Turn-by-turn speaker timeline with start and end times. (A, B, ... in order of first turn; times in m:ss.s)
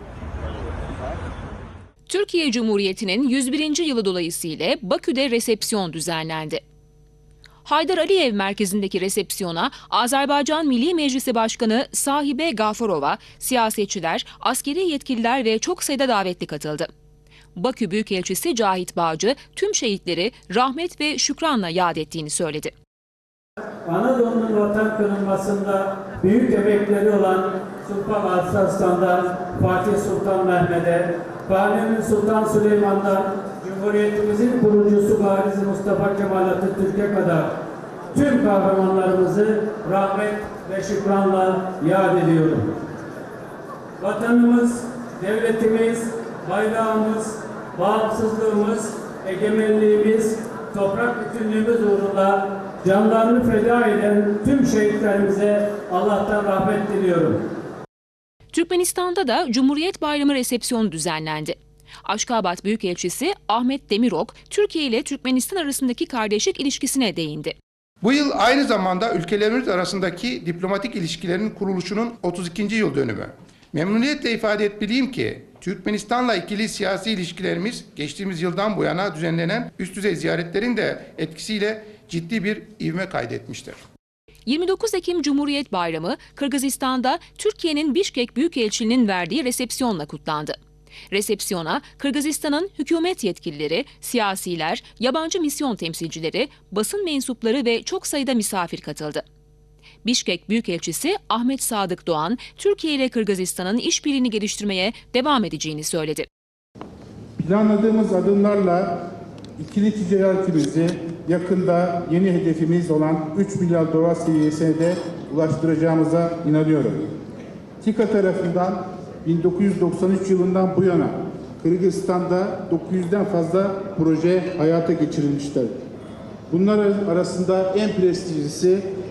0:02.1-0:06.6 A
0:07.6-0:16.9 A
0:17.6-0:22.7 A
0:23.8-0:37.5 B
0:38.1-0:42.7 B
0:44.0-0:57.4 B
0:58.5-1:07.6 A
1:08.0-1:23.8 C
1:24.5-1:30.6 A
1:31.1-1:39.2 A
1:40.0-1:46.3 A
1:47.4-1:49.0 D
1:49.6-1:57.1 D
1:57.8-2:05.7 D
2:06.5-2:08.8 D